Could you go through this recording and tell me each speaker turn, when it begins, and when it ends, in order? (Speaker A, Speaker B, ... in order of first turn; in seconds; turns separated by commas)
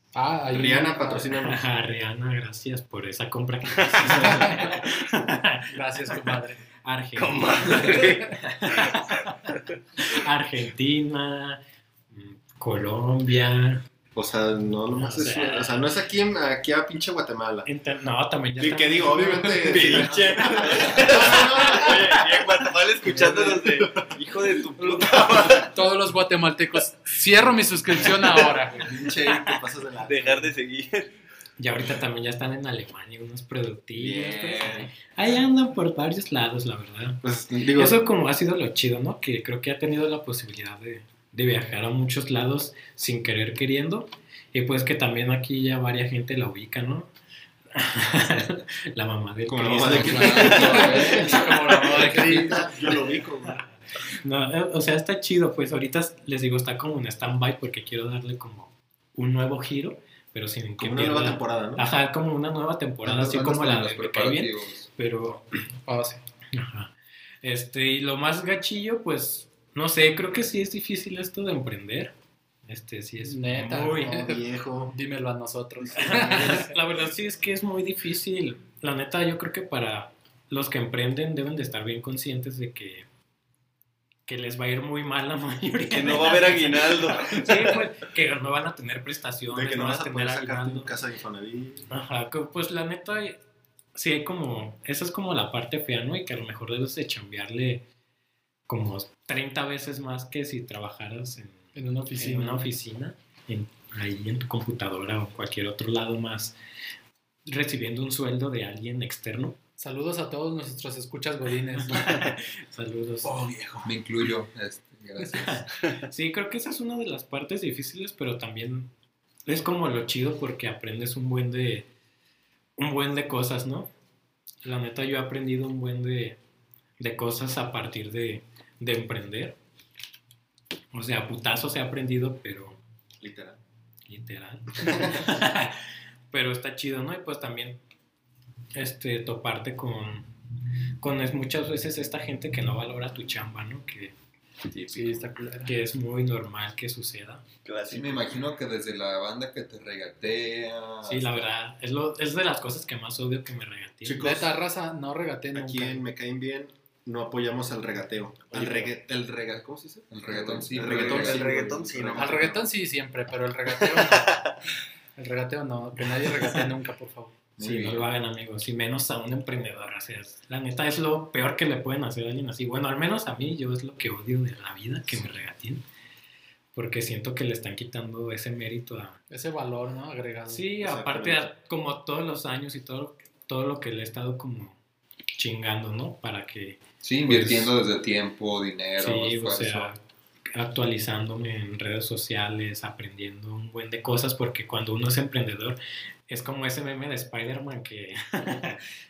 Speaker A: 0.1-1.3, Speaker B: 0.5-1.7, Speaker C: 1.4-13.8, Speaker D: 3.8-4.1, Speaker A: 4.3-4.7, Speaker A: 5.7-6.6, Speaker D: 7.2-9.0, Speaker B: 14.1-17.7, Speaker C: 14.9-15.9, Speaker C: 17.6-20.1, Speaker B: 18.6-22.2, Speaker D: 19.6-25.7, Speaker B: 23.1-24.1, Speaker A: 24.8-28.9, Speaker B: 28.7-30.6, Speaker D: 29.3-31.1, Speaker C: 31.6-47.1, Speaker B: 34.0-34.9, Speaker B: 37.2-38.0, Speaker C: 47.7-51.3, Speaker B: 49.5-53.6, Speaker E: 49.9-52.6, Speaker A: 50.0-52.7, Speaker C: 53.5-65.4, Speaker B: 60.8-61.9, Speaker E: 63.0-64.9, Speaker A: 65.9-66.2, Speaker C: 66.5-72.1, Speaker C: 72.7-74.2, Speaker A: 73.2-74.4, Speaker B: 74.0-75.0, Speaker A: 74.9-76.7, Speaker B: 75.8-76.7, Speaker C: 76.0-83.0, Speaker C: 84.3-90.9, Speaker D: 85.9-87.8, Speaker B: 89.5-91.9, Speaker C: 91.9-93.4, Speaker C: 94.0-97.8, Speaker C: 98.7-106.6, Speaker A: 101.7-102.7, Speaker C: 107.5-109.6, Speaker A: 109.8-112.1, Speaker C: 111.9-113.4, Speaker B: 113.2-113.9, Speaker E: 113.8-115.7, Speaker C: 115.3-118.9, Speaker C: 119.5-121.9, Speaker C: 122.8-123.9, Speaker C: 124.6-126.4, Speaker C: 127.0-129.6, Speaker C: 130.9-132.8, Speaker B: 133.2-133.6, Speaker C: 134.1-137.8, Speaker C: 138.7-140.3, Speaker C: 141.0-144.1, Speaker C: 144.7-147.4, Speaker A: 144.9-145.7, Speaker D: 147.6-148.4, Speaker E: 147.9-151.5, Speaker C: 151.0-154.4, Speaker B: 154.1-154.5, Speaker A: 154.2-156.0, Speaker B: 155.6-162.6, Speaker C: 158.6-158.9, Speaker E: 160.1-161.5, Speaker D: 160.7-162.6, Speaker A: 162.2-164.5, Speaker D: 163.9-164.6, Speaker A: 165.2-167.4, Speaker C: 167.6-175.8, Speaker B: 167.6-168.0, Speaker C: 176.7-179.2, Speaker A: 179.3-180.6, Speaker C: 180.5-184.8, Speaker B: 180.8-181.4, Speaker C: 185.4-186.8, Speaker E: 187.0-189.9, Speaker B: 187.3-187.7, Speaker C: 189.0-190.0, Speaker C: 190.5-198.8